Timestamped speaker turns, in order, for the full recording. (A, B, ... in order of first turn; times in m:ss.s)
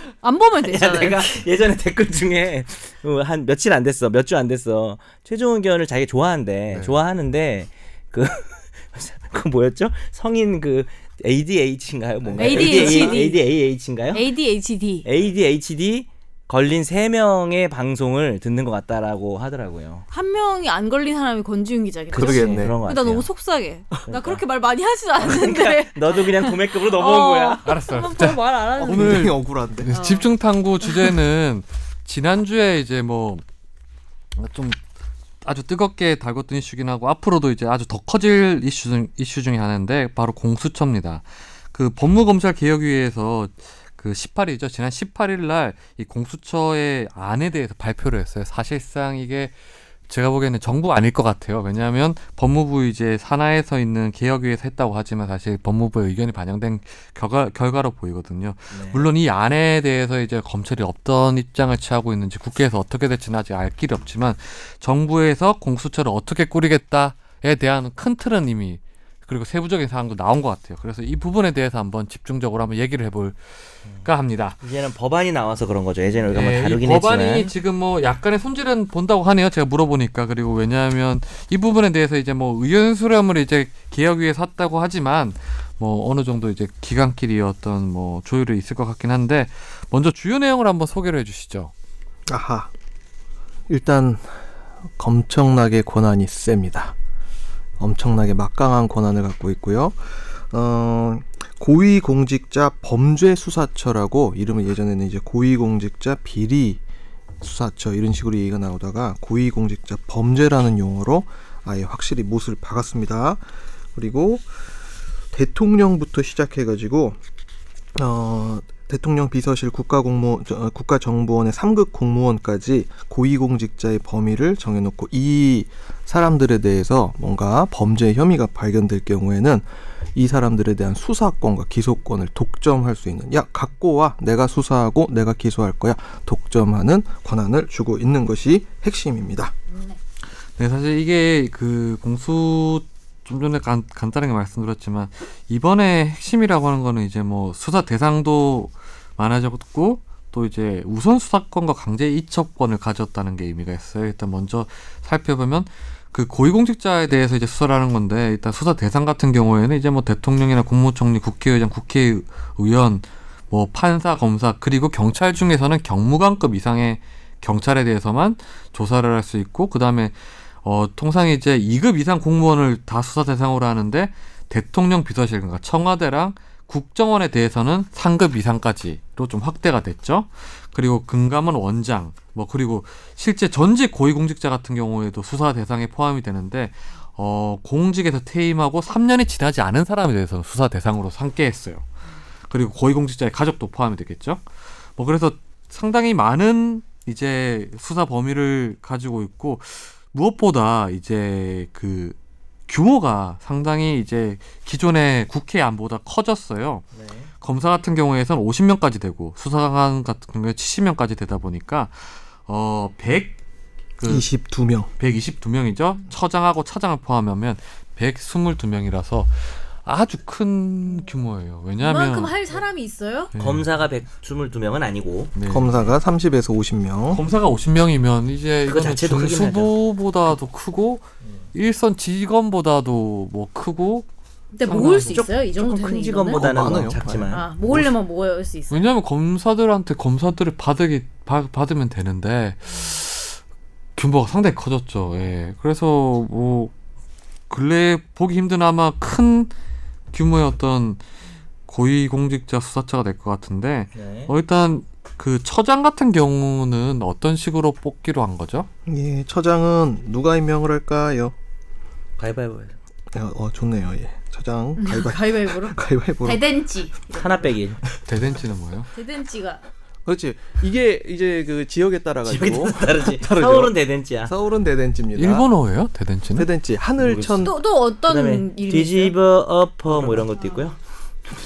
0:00.2-0:01.3 A
0:00.6-0:14.2 B
0:12.2-0:13.2 C
0:12.4-0:13.4 A
0:14.1-0:15.1 A
0:15.0-0:20.0 B
0:20.1-0:29.3 A
0:22.1-0:23.3 B
0:22.1-0:22.8 C
0:24.1-0:24.4 B
0:25.2-0:27.6 B
0:27.6-0:33.4 D
0:28.8-0:29.9 C
0:29.9-0:30.3 A
0:30.8-0:31.1 A
0:34.4-0:34.8 D
0:35.4-0:49.5 D
0:50.1-1:14.6 D
0:58.7-0:59.1 B
1:14.6-1:17.5 B
1:16.3-1:31.7 D
1:32.3-1:32.7 C
1:33.7-1:34.3 C
1:35.0-1:36.9 C
1:37.8-1:46.8 C
1:47.4-1:53.4 C
1:53.9-1:54.5 C
1:55.3-1:57.2 C
1:57.9-2:19.5 C
2:20.6-3:11.9 D
3:12.5-3:14.4 D
3:15.0-3:22.2 D
3:22.7-3:26.9 D
3:26.9-3:27.3 B
3:27.4-3:33.4 D
3:34.0-3:34.3 D
3:34.1-3:34.9 C
3:35.0-3:42.3 D
3:41.8-3:43.3 A
3:43.3-3:43.6 D
3:43.4-3:45.3 B
3:45.4-3:45.9 D
3:45.5-3:47.2 C
3:47.1-3:54.1 D
3:48.6-3:49.7 B
3:54.6-3:56.4 A
3:54.6-3:55.3 D
3:55.1-3:57.5 B
3:56.3-3:57.8 C
3:57.3-3:58.9 A
3:58.7-4:03.4 D
4:04.0-4:06.7 D
4:07.5-4:09.5 D
4:10.1-4:11.0 D
4:11.7-4:18.7 D
4:13.9-4:14.3 B
4:18.9-4:21.3 C
4:22.2-4:22.8 B
4:23.1-4:26.5 C
4:24.8-4:27.5 A
4:27.1-4:27.8 B
4:28.1-4:28.9 D
4:28.9-4:29.6 A
4:30.0-4:35.5 C
4:32.2-4:34.3 B
4:35.1-4:36.5 D
4:36.4-4:37.6 C
4:37.0-4:37.5 B
4:37.4-4:39.1 A
4:38.1-4:40.8 B